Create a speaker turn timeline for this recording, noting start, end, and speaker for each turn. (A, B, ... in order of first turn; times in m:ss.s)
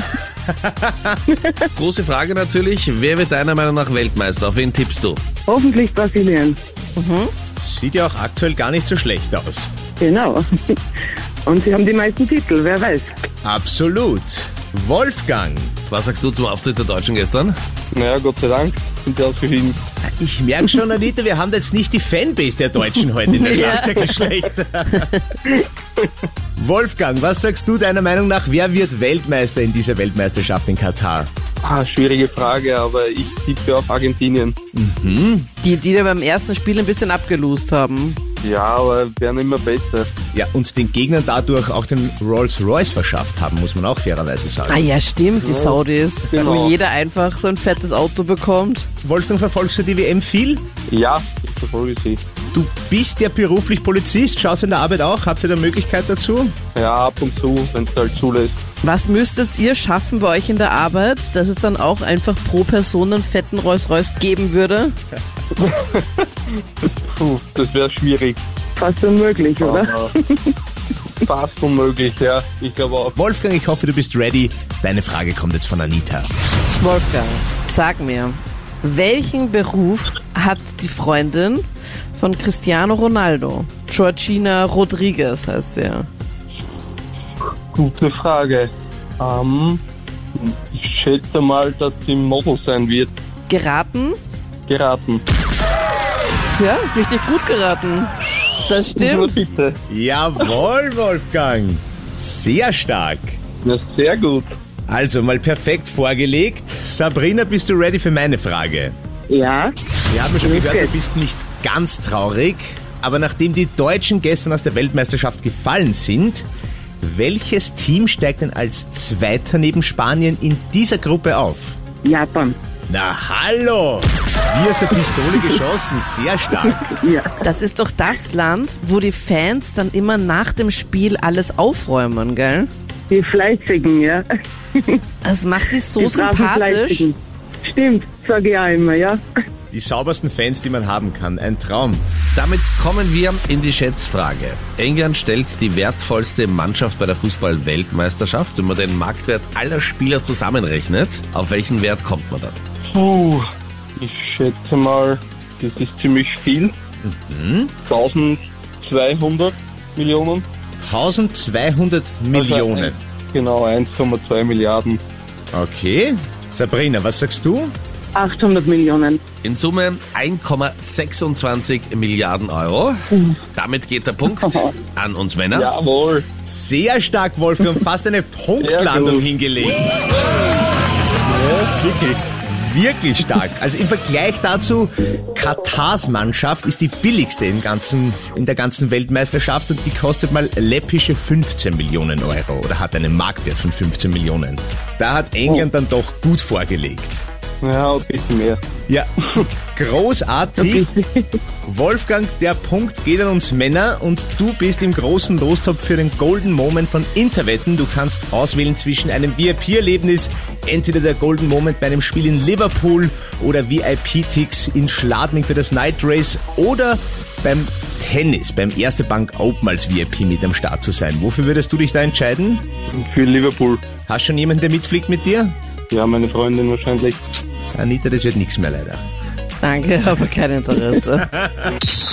0:00.5-0:01.2 A
0:01.3-0:01.6 B
0:01.8-0:05.2 C
0:05.5-0:06.6 B
0:07.0-0:07.3 D
0:07.6-0:09.7 A
0:10.0-0:10.8 B
0:11.4-0:13.2 B
0:13.4-0:15.8 A
0:15.9-0:17.6 C
0:17.9-0:19.8 E
0:20.2-0:25.1 A
0:23.4-0:24.2 D
0:26.6-0:31.3 A
0:31.6-0:34.6 E
0:34.7-0:35.5 A
0:35.6-0:38.2 D
0:38.4-0:40.1 E
0:40.3-0:44.8 A
0:44.7-0:48.9 D
0:45.4-0:45.8 E
0:46.3-0:46.8 E
0:49.0-0:50.6 A
0:50.9-0:52.2 E
0:52.5-0:56.6 A
0:56.8-0:58.6 E
0:58.8-1:05.0 D
1:05.6-1:08.4 E
1:08.8-1:10.4 B
1:09.6-1:10.1 E
1:11.2-1:13.2 E
1:13.2-1:16.3 A
1:16.8-1:26.1 D
1:27.7-1:29.8 E
1:30.4-1:33.1 E
1:33.5-1:34.2 D
1:34.7-1:35.2 E
1:36.6-1:38.1 D
1:38.7-1:39.4 D
1:39.0-1:39.8 E
1:39.9-1:43.4 A
1:43.6-1:44.5 E
1:44.9-1:49.0 A
1:49.3-1:49.7 B
1:50.1-1:56.5 A
1:50.4-1:50.9 B
1:57.0-2:01.8 A
2:02.0-2:02.6 B
2:02.9-2:06.8 A
2:06.8-2:07.4 B
2:07.4-2:12.7 D
2:13.1-2:15.0 B
2:15.2-2:17.1 D
2:16.0-2:19.2 B
2:19.7-2:22.0 A
2:22.4-2:32.6 C
2:32.9-2:33.4 E
2:34.0-2:36.8 E
2:37.0-2:37.7 A
2:37.9-2:40.4 E
2:40.8-2:43.0 A
2:42.3-2:45.0 E
2:45.5-2:47.7 A
2:48.2-2:49.2 B
2:49.4-2:55.7 C
2:54.4-2:54.7 B
2:55.5-2:56.2 E
2:56.4-2:59.9 A
2:58.6-2:59.2 E
3:01.3-3:02.2 E
3:02.4-3:17.2 A
3:17.6-3:18.6 E
3:18.9-3:20.9 A
3:20.6-3:21.4 B
3:21.6-3:42.7 A
3:42.9-3:43.8 E
3:44.1-3:45.5 A
3:45.9-3:47.2 E
3:47.8-3:49.0 A
3:49.6-3:51.3 D